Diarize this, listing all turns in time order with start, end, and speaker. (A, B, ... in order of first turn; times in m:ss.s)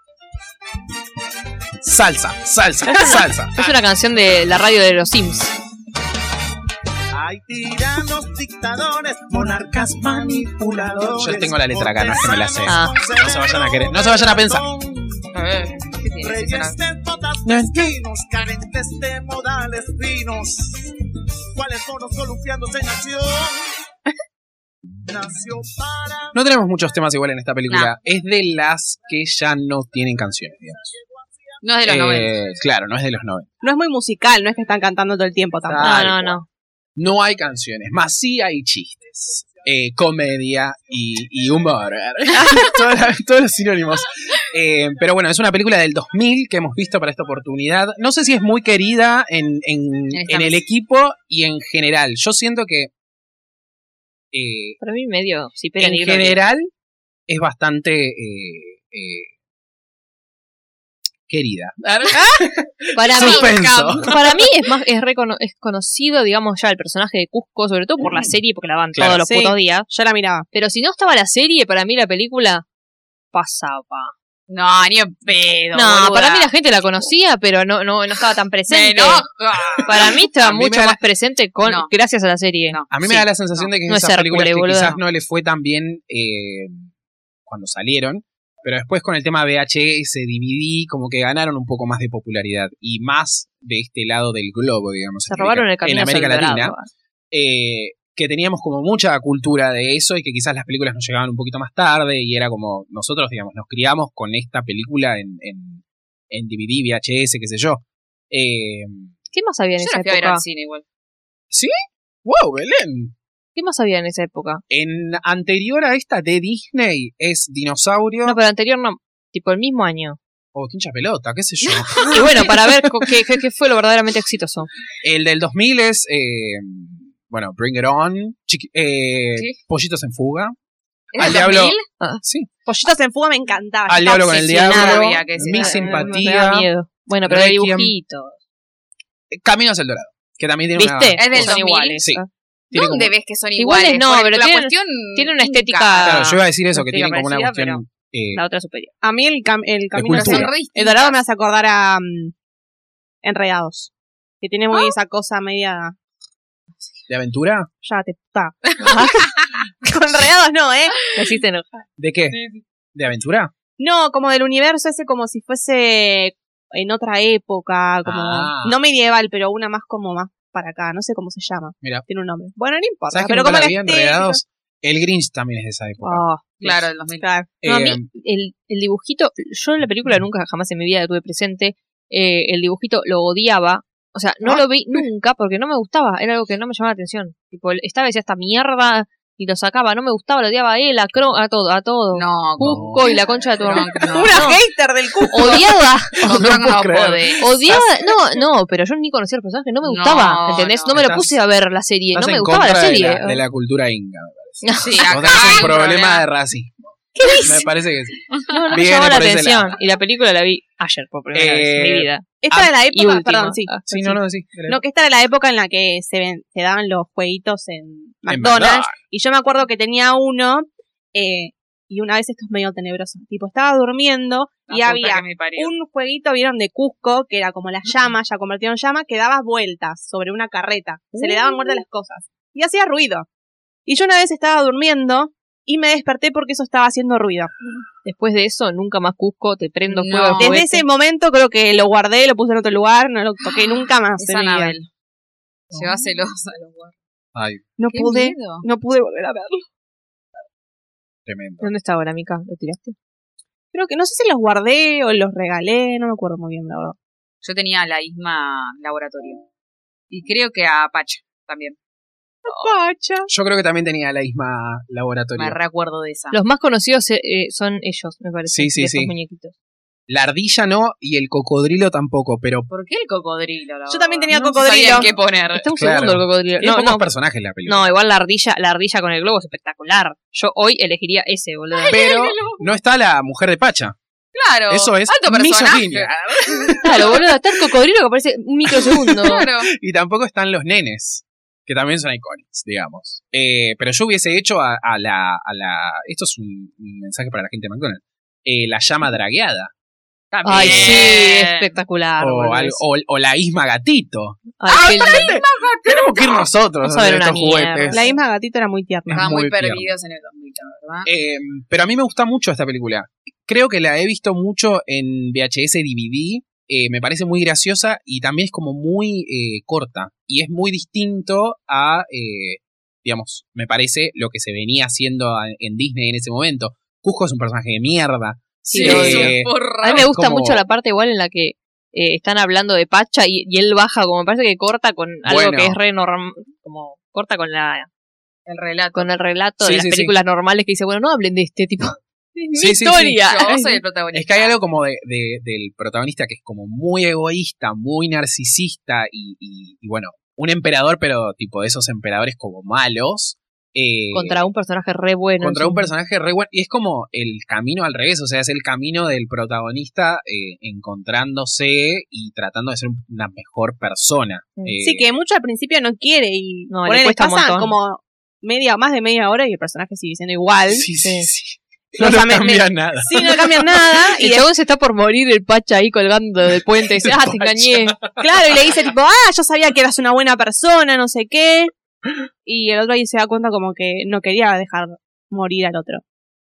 0:01.8-0:03.6 A
0:02.9-0:05.5 B
0:07.1-0:15.4 C
0:09.3-0:14.6 A
0:12.7-0:13.0 B
0:15.3-0:16.8 D
0:16.1-0:20.8 C
0:17.4-0:18.0 A
0:21.6-0:23.7 C
0:25.0-0:26.4 C
0:26.3-0:30.9 A
0:28.0-0:32.6 C
0:31.6-0:32.3 D
0:31.8-0:33.5 A
0:33.6-0:35.9 E
0:35.6-0:36.4 A
0:35.8-0:36.4 B
0:37.0-0:52.9 A
0:39.0-0:39.7 C
0:40.8-0:41.9 C
0:50.1-0:50.6 D
0:54.3-0:54.8 A
0:54.8-0:56.4 B
0:55.8-0:56.7 A
0:57.3-0:59.3 A
1:01.3-1:01.8 A
1:01.8-1:02.4 D
1:02.5-1:04.1 A
1:02.9-1:09.9 B
1:03.1-1:04.3 D
1:08.9-1:09.2 A
1:09.2-1:10.4 E
1:10.5-1:12.6 B
1:13.3-1:14.1 B
1:14.5-1:17.1 D
1:15.7-1:19.2 B
1:18.7-1:20.2 D
1:19.8-1:23.2 B
1:20.3-1:21.0 A
1:21.6-1:21.9 D
1:22.9-1:26.9 A
1:23.9-1:25.0 B
1:27.4-1:36.8 A
1:35.3-1:36.9 B
1:37.3-1:49.1 A
1:49.3-1:50.4 B
1:49.8-1:50.8 D
1:51.5-1:53.1 A
1:53.5-1:54.6 B
1:54.7-1:58.4 A
1:58.2-2:00.2 B
2:00.5-2:02.3 A
2:01.6-2:02.7 D
2:02.1-2:04.7 B
2:05.0-2:10.5 A
2:11.1-2:12.5 A
2:11.1-2:11.8 D
2:12.6-2:14.5 E
2:13.9-2:16.7 A
2:14.3-2:16.2 D
2:14.6-2:18.4 B
2:17.2-2:17.9 A
2:19.3-2:23.1 A
2:20.8-2:22.3 B
2:21.2-2:22.0 D
2:22.7-2:26.2 D
2:23.6-2:27.8 B
2:26.0-2:28.4 A
2:28.3-2:28.9 B
2:29.0-2:32.3 E
2:29.9-2:30.5 A
2:30.1-2:31.2 D
2:33.2-2:36.0 E
2:37.1-2:37.7 A
2:37.8-2:41.0 E
2:38.7-2:39.1 D
2:38.8-2:39.2 B
2:41.1-2:41.8 B
2:42.0-2:42.4 A
2:42.3-2:42.6 D
2:42.9-2:43.5 A
2:43.8-2:54.4 E
2:48.0-2:48.8 A
2:53.1-2:56.8 A
2:56.0-2:56.5 B
2:56.6-2:57.2 D
2:57.2-2:57.5 E
2:57.6-2:58.0 A
2:57.6-3:14.6 B
3:04.4-3:05.0 E
3:12.1-3:14.6 D
3:12.6-3:13.1 A
3:14.1-3:15.7 E
3:15.3-3:16.2 B
3:16.2-3:17.3 A
3:16.2-3:17.9 D
3:17.4-3:23.4 B
3:19.8-3:21.0 D
3:20.9-3:21.4 A
3:22.1-3:29.8 A
3:24.6-3:25.7 B
3:24.8-3:26.2 D
3:27.2-3:27.6 B
3:28.3-3:28.8 D
3:28.5-3:34.2 B
3:31.3-3:32.1 A
3:32.4-3:33.8 E
3:33.9-3:34.8 A
3:34.7-3:53.3 E
3:38.3-3:39.0 A
3:44.7-3:45.7 D
3:51.2-3:51.5 B
3:53.8-3:57.5 E
3:58.0-4:00.8 B
3:59.9-4:00.6 D
4:00.4-4:04.7 E
4:03.4-4:04.9 D
4:05.7-4:06.0 A
4:05.7-4:06.9 D
4:07.3-4:07.6 A
4:07.8-4:09.7 E
4:07.9-4:08.6 D
4:11.2-4:11.7 A
4:11.6-4:12.9 B
4:13.7-4:17.0 E
4:17.4-4:19.4 D
4:20.1-4:21.8 D
4:22.5-4:23.3 E
4:23.3-4:25.6 A
4:25.4-4:26.4 D
4:26.3-4:29.5 B
4:28.5-4:29.1 A
4:30.1-4:32.7 A
4:32.7-4:35.7 D
4:33.9-4:35.1 E
4:34.3-4:34.8 A
4:34.9-4:37.1 B
4:35.8-4:37.9 A
4:37.6-4:42.0 B
4:41.7-4:42.6 D
4:41.9-4:44.0 A
4:44.3-4:47.1 D
4:44.7-4:47.2 A
4:46.8-4:49.4 B
4:48.7-4:59.7 A
4:49.2-4:49.7 D
5:00.3-5:01.7 D
5:00.4-5:02.8 B
5:00.5-5:01.1 A
5:02.2-5:08.1 A
5:04.6-5:05.3 B
5:04.8-5:06.5 D
5:06.8-5:08.0 B
5:07.9-5:09.3 E
5:09.1-5:09.9 A
5:09.1-5:11.1 D
5:11.0-5:30.6 A
5:28.7-5:37.9 B
5:28.7-5:30.1 D
5:35.2-5:35.8 A
5:38.5-5:39.1 D
5:38.9-5:43.8 B
5:39.6-5:40.2 A
5:42.5-5:43.2 A
5:43.2-5:44.5 D
5:44.1-5:54.4 A
5:54.1-5:55.9 B
5:55.4-6:05.1 A
6:04.8-6:10.9 E
6:06.7-6:07.7 B
6:10.7-6:13.5 A
6:11.0-6:11.3 B
6:12.0-6:14.5 E
6:14.1-6:18.0 B
6:16.8-6:18.4 A
6:18.2-6:21.7 E
6:22.4-6:26.0 E